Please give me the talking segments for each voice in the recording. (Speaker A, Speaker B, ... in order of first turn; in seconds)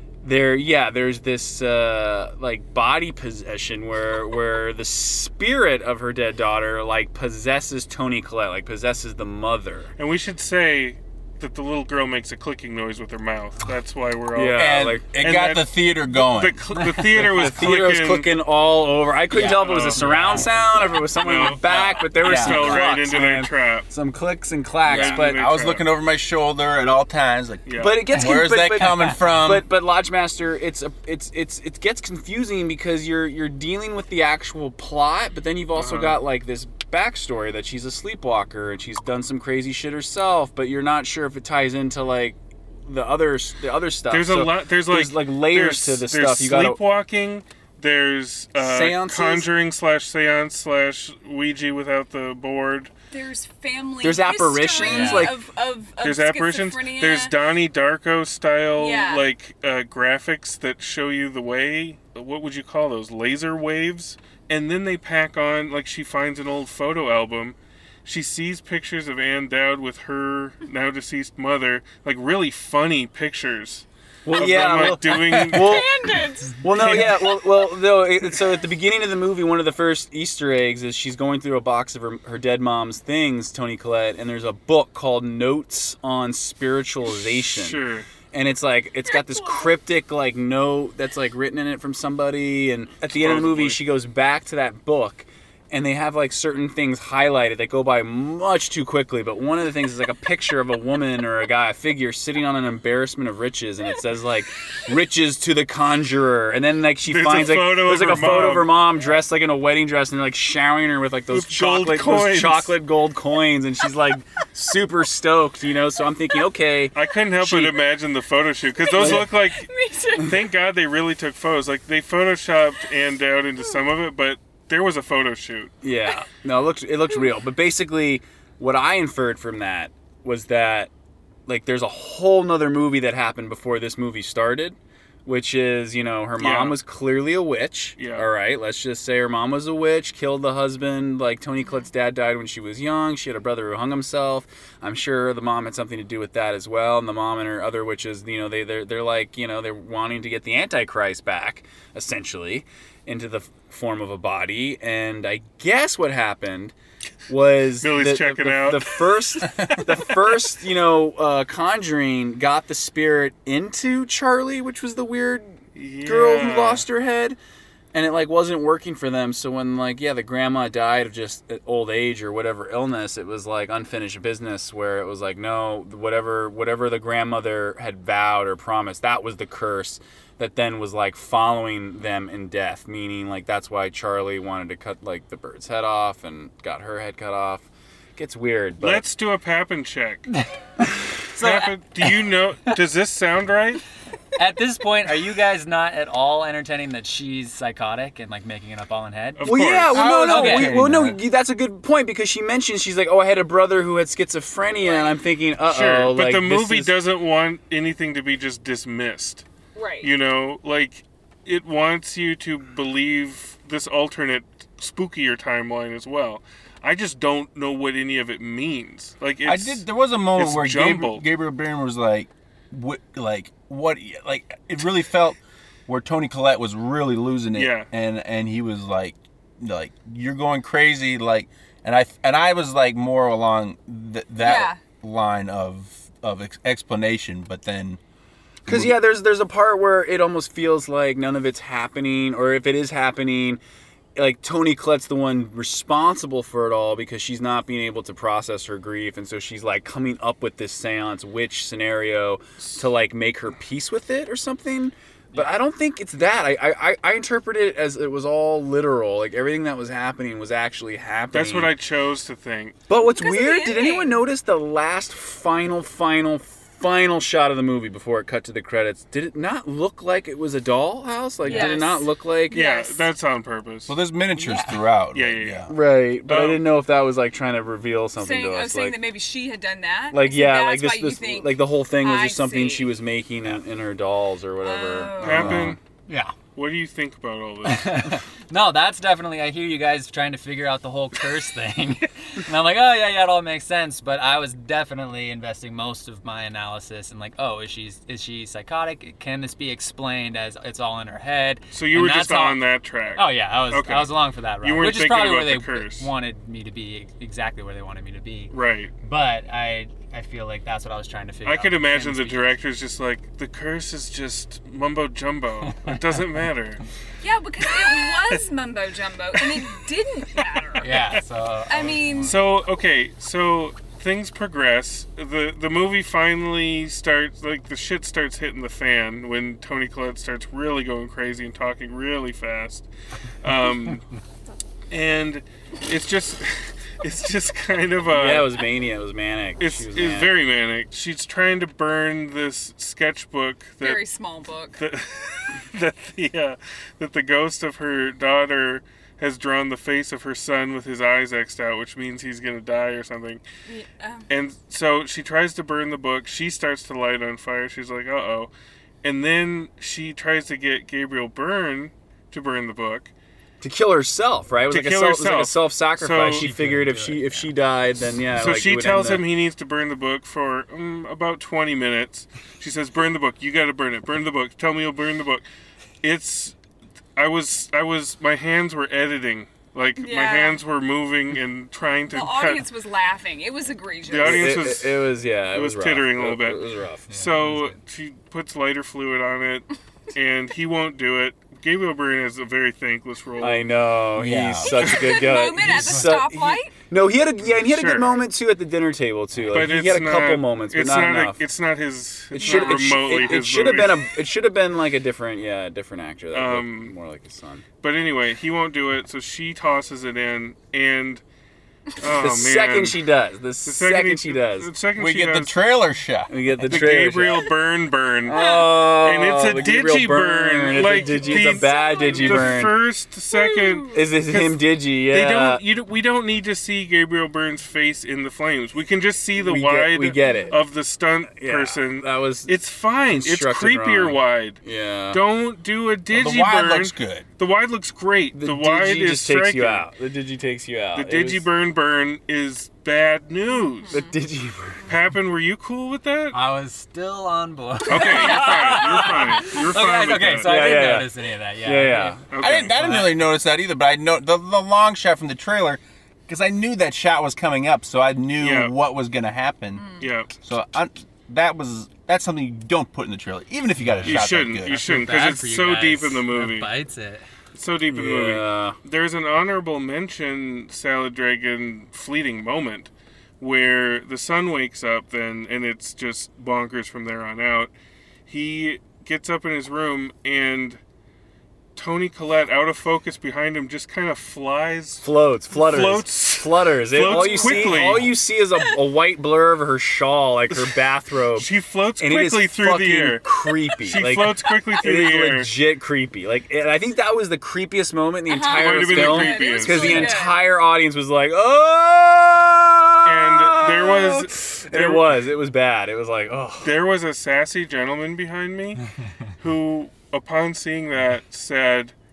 Speaker A: 0.2-9.9, 14.3-15.0, 17.2-25.4, 27.8-46.8, 48.6-49.5, 54.0-55.4, 74.2-75.9, 76.6-87.8, 88.3-117.7, 119.0-119.3, 125.8-130.9, 131.5-156.7, 157.3-167.4, 167.9-189.0, 199.4-206.9, 238.6-243.6, 244.2-261.7, 262.9-272.6, 275.7-279.0, 280.1-285.8, 338.1-340.3, 363.6-369.2, 384.2-387.1, 393.4-401.4, 402.4-407.6, 412.0-414.7, 416.3-417.4, 418.2-422.8, 423.9-425.6, 429.4-430.6, 431.3-432.5, 433.1-435.2, 438.3-441.4, 443.9-444.8, 448.0-449.1, 450.4-451.1, 451.6-452.2, 467.9-468.8, 485.0-491.5, 492.0-506.7
Speaker B: 10.0-18.3, 19.4-20.1, 21.2-23.9, 24.9-25.9, 27.6-28.0, 35.8-36.1, 44.1-52.9, 56.0-75.9, 76.7-77.4, 87.2-88.1, 93.1-93.8, 107.1-108.7, 111.3-112.7, 116.9-125.7, 136.4-136.8, 138.0-138.3, 157.8-159.0, 165.7-166.8, 188.8-190.3, 191.4-193.8, 199.4-200.0, 205.7-209.4, 210.0-221.2, 227.5-227.9, 261.3-262.8, 272.5-273.9, 275.1-275.6, 276.2-276.6, 285.2-285.8, 286.5-288.1, 301.7-306.1, 308.5-308.9, 311.4-316.8, 317.7-318.4, 320.8-321.2, 321.7-332.9, 333.4-334.0, 334.9-338.6, 339.6-344.0, 344.8-353.4, 354.3-358.5, 359.0-363.1, 364.7-366.5, 368.3-375.4, 376.0-376.6, 377.1-382.6, 384.0-393.7, 397.5-398.2, 399.5-404.1, 406.3-406.9, 407.8-411.2, 412.0-413.0, 413.6-415.6, 416.7-434.6, 435.1-439.9, 440.9-443.9, 444.9-446.4, 447.9-450.5, 452.3-452.8, 458.4-458.7, 460.0-460.3, 464.0-466.7, 467.5-477.7, 478.3-480.8, 481.8-488.1, 491.4-493.2, 493.8-495.5, 498.5-500.1, 503.0-505.2, 506.6-508.9, 509.4-511.9
Speaker C: 14.5-16.6, 22.2-22.8, 24.9-29.6, 199.8-201.2, 219.4-238.0, 238.7-239.0, 273.9-275.7, 285.4-285.8, 394.1-394.9, 415.0-416.3, 436.1-437.2, 452.4-464.8
Speaker D: 19.9-20.7, 54.8-55.3, 191.3-191.7, 194.4-199.7, 200.2-200.8, 271.4-271.8, 286.1-286.4, 287.6-302.6, 303.1-312.5, 315.7-316.0, 320.8-322.4, 366.2-368.2, 387.1-387.8, 395.6-396.2, 399.4-399.7, 446.3-453.1, 463.8-467.3
Speaker E: 53.1-57.3, 58.8-59.2, 75.4-77.0, 89.0-89.8, 118.8-120.5, 141.6-141.9, 204.8-205.1, 209.7-210.1, 234.4-234.8, 263.1-264.2, 271.5-273.1, 278.2-282.9, 284.6-285.6, 317.2-320.9, 321.7-322.4, 343.8-344.8, 353.7-354.2, 380.0-380.6, 382.1-384.5, 394.6-396.7, 402.4-403.4, 418.3-418.7, 421.1-422.7, 423.3-424.0, 443.8-444.2, 459.8-460.1, 487.0-487.8, 498.3-500.4